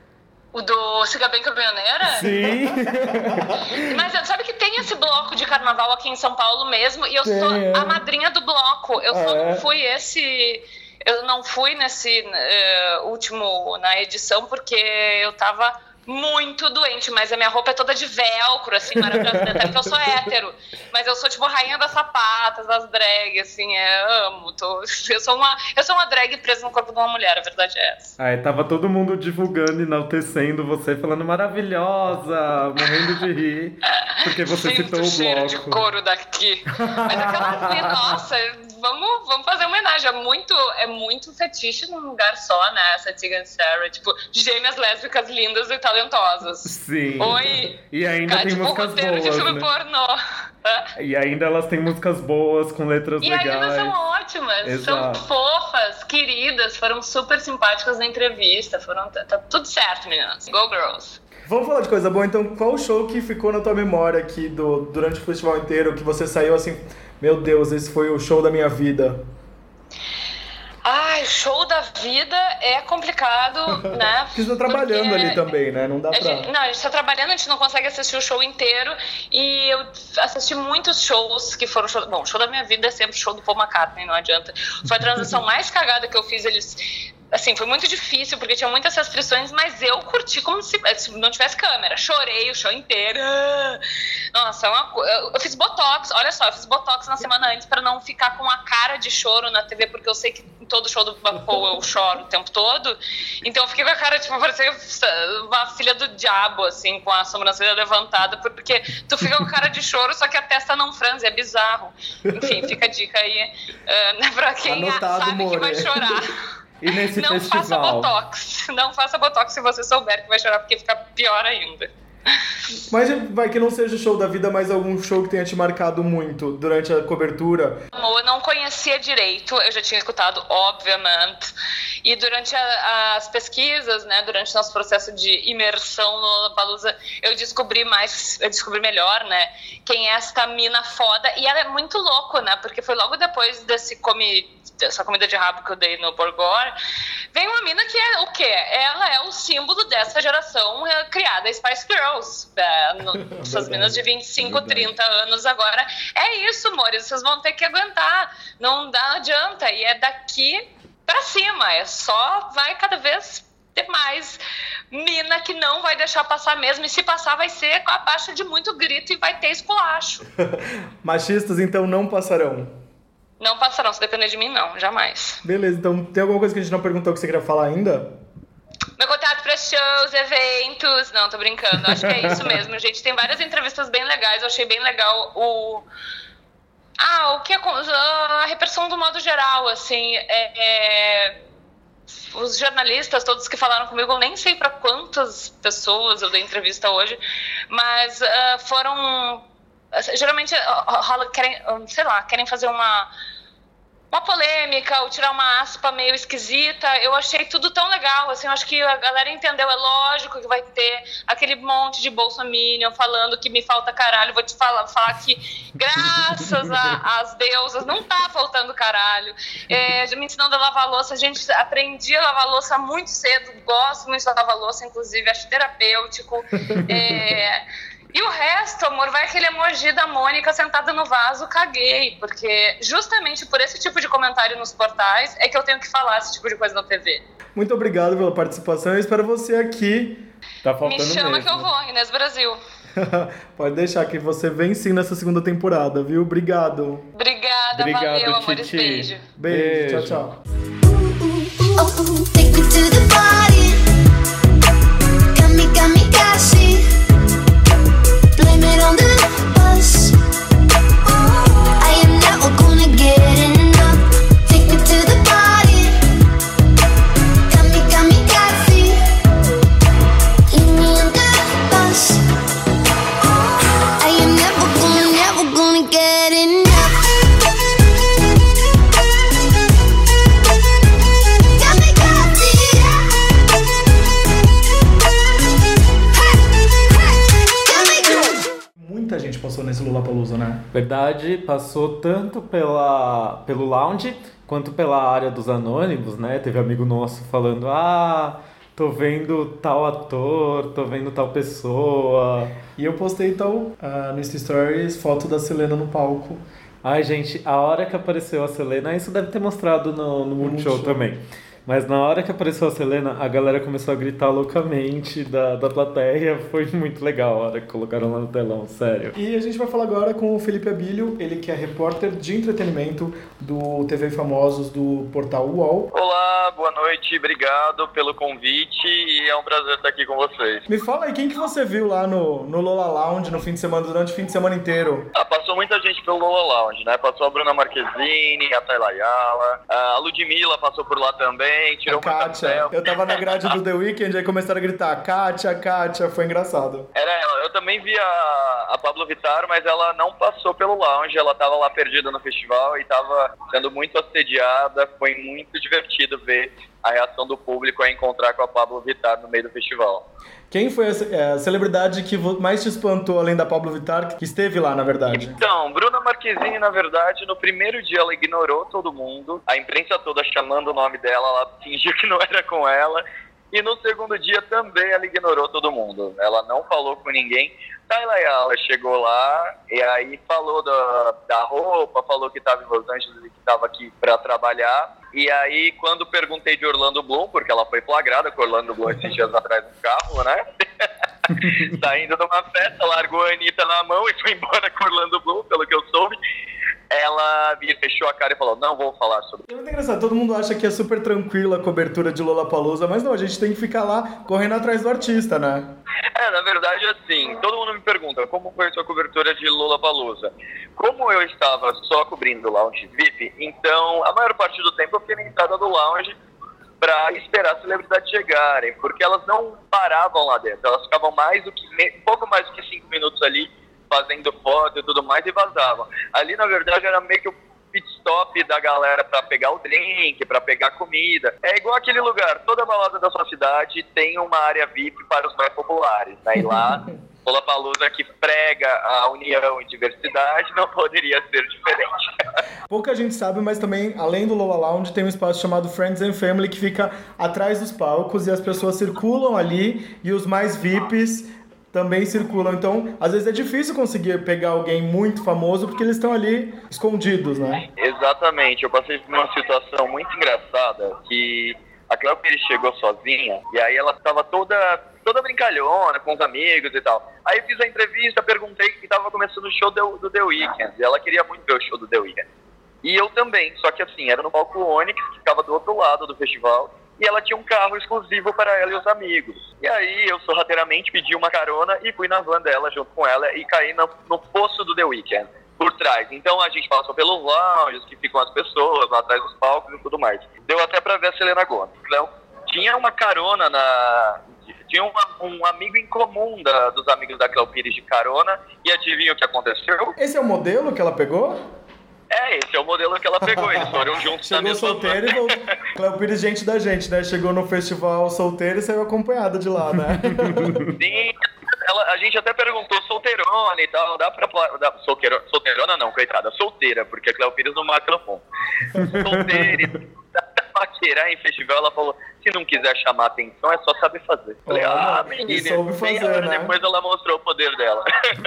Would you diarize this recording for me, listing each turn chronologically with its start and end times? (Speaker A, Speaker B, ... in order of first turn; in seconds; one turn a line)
Speaker A: 0.5-2.3
Speaker B: 2.1-3.9
Speaker A: 3.8-28.1
Speaker B: 7.2-8.0
Speaker B: 9.1-9.6
Speaker B: 19.0-19.9
Speaker B: 28.2-35.8
Speaker A: 34.4-50.9
Speaker B: 36.8-38.1
Speaker B: 46.6-49.7
Speaker B: 51.0-53.9
Speaker A: 53.2-61.2
Speaker B: 54.6-55.2
Speaker C: 61.5-69.2
Speaker A: 70.8-75.4
Speaker C: 74.3-76.5
Speaker A: 76.1-86.8
Speaker A: 87.3-93.8
Speaker A: 94.3-116.3
Speaker C: 112.3-112.7
Speaker C: 114.7-116.2
Speaker B: 116.8-118.1
Speaker A: 117.1-121.9
Speaker C: 122.9-127.8
Speaker A: 127.9-131.5
Speaker A: 132.0-146.7
Speaker A: 147.3-170.2
Speaker C: 153.3-154.0
Speaker C: 154.5-154.8
Speaker C: 171.0-172.7
Speaker A: 173.4-175.4
Speaker C: 175.4-178.1
Speaker A: 179.0-185.8
Speaker A: 187.0-191.4
Speaker A: 192.2-197.2
Speaker A: 197.7-203.1
Speaker A: 204.1-227.6
Speaker A: 228.1-237.2
Speaker C: 237.6-240.2
Speaker B: 240.6-241.7
Speaker A: 240.8-242.6
Speaker C: 242.9-247.0
Speaker A: 247.1-249.2
Speaker B: 247.7-250.2
Speaker C: 249.4-250.4
Speaker D: 250.9-253.8
Speaker D: 255.3-256.9
Speaker D: 258.3-260.1
Speaker D: 261.1-266.0
Speaker D: 267.5-269.0
Speaker D: 270.5-272.2
Speaker D: 274.0-277.0
Speaker D: 281.5-283.0
Speaker D: 287.6-288.3
Speaker C: 288.8-290.6
Speaker B: 290.7-302.5
Speaker C: 302.8-306.4
Speaker B: 306.8-319.1
Speaker C: 310.4-311.0
Speaker C: 319.1-325.9
Speaker E: 325.9-330.6
Speaker C: 330.7-335.1
Speaker E: 335.1-343.4
Speaker C: 341.9-346.9
Speaker E: 346.9-360.1
Speaker C: 360.5-365.4
Speaker E: 365.1-390.6
Speaker E: 391.3-396.2
Speaker E: 396.9-399.4
Speaker C: 399.5-405.7
Speaker E: 406.1-416.1
Speaker E: 416.8-442.0
Speaker C: 442.7-457.6
Speaker E: 457.8-472.2
Speaker E: 472.8-499.9
Speaker C: 500.0-501.4
Speaker E: 502.1-505.3
Speaker C: 504.2-510.6
Speaker B: 510.3-510.7
Speaker E: 510.8-518.2
Speaker E: 518.8-527.8
Speaker B: 518.8-519.5
Speaker C: 524.5-526.5